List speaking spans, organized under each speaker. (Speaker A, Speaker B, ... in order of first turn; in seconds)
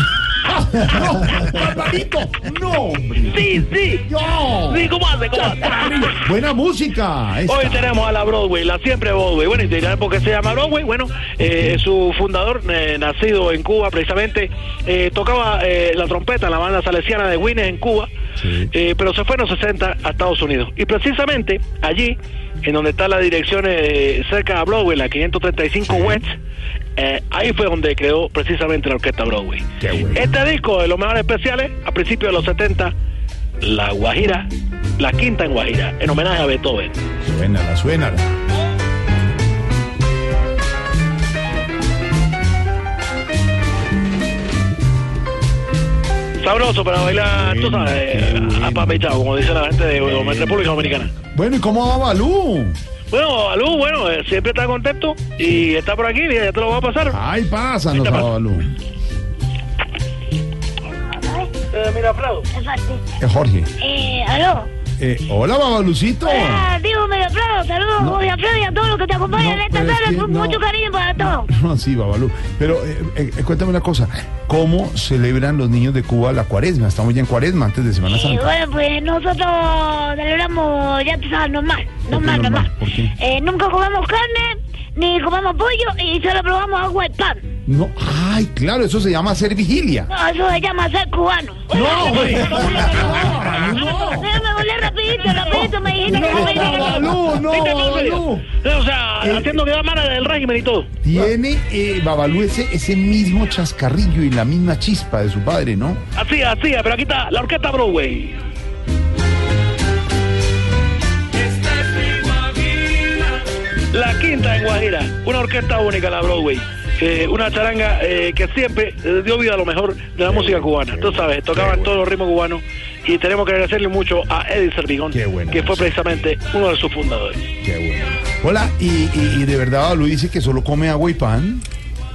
Speaker A: 0.5-3.5, 4.0-8.0, 18.4-18.7, 25.8-26.2, 29.8-30.2, 37.2-38.3, 47.2-49.1, 50.0-52.8, 57.1-58.7, 63.2-63.7, 65.0-66.7, 69.3-70.6, 71.2-78.5, 82.1-83.2, 87.7-90.1, 91.7-94.4, 96.0-98.5, 99.2-99.6, 101.0-106.0, 120.2-122.0, 125.1-125.9, 127.6-131.7
Speaker B: 3.3-4.1, 4.7-6.2, 7.5-18.1, 18.7-26.3, 27.0-32.9, 33.6-37.0, 46.4-51.1, 53.1-57.2, 57.9-58.3, 61.7-62.5, 91.8-93.2, 96.1-100.9, 106.2-108.4, 111.4-127.5
Speaker C: 60.9-61.5, 62.5-63.0, 63.8-64.7, 66.2-71.5, 78.1-87.4, 90.1-97.1